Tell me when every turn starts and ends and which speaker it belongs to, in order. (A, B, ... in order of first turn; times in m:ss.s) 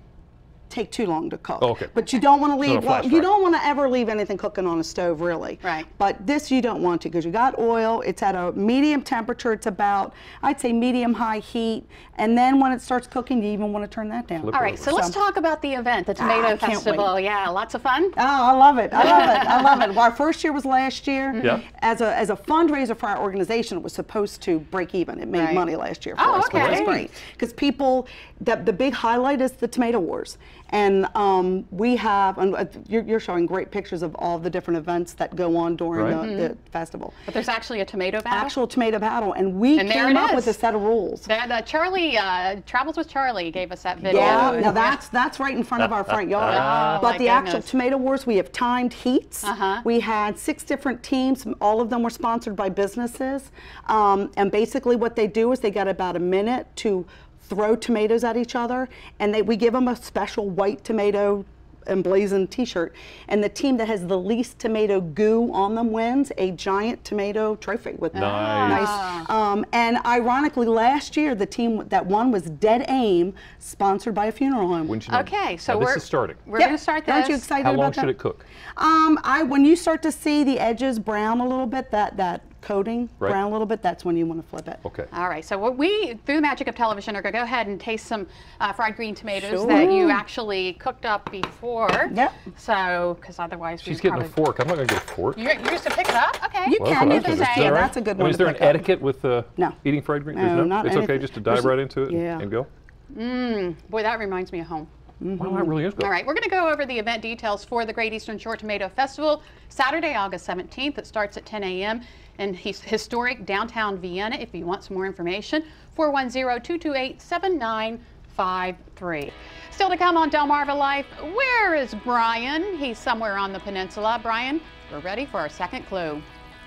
0:00.7-0:15.2 A
0:01.6-0:02.0 B
0:02.6-0:03.3 B
0:14.4-0:15.0 B
0:14.5-0:18.2 C
0:16.2-0:17.1 A
0:18.2-0:37.2 A
0:19.0-0:19.9 C
0:25.3-0:27.0 C
0:26.4-0:27.0 B
0:35.9-0:36.2 B
0:36.2-0:36.5 C
0:37.3-0:38.5 C
0:38.3-0:41.3 A
0:39.8-0:40.6 C
0:41.2-0:45.0 C
0:44.0-1:15.0 A
0:44.1-0:44.7 B
0:45.8-0:47.1 B
0:46.4-0:47.7 C
0:49.4-0:49.9 C
1:08.1-1:08.9 B
1:08.2-1:09.3 C
1:14.9-1:16.4 B
1:15.1-1:17.5 C
1:16.6-1:18.1 A
1:17.6-1:18.4 B
1:18.8-1:24.8 A
1:25.1-1:34.4 C
1:29.3-1:30.2 A
1:32.1-1:32.4 A
1:33.8-1:35.4 B
1:35.4-1:37.9 C
1:36.6-1:38.9 A
1:36.8-1:42.7 B
1:40.3-1:42.5 A
1:43.1-1:44.9 C
1:45.2-1:45.7 A
1:45.4-1:46.1 B
1:46.0-2:06.2 C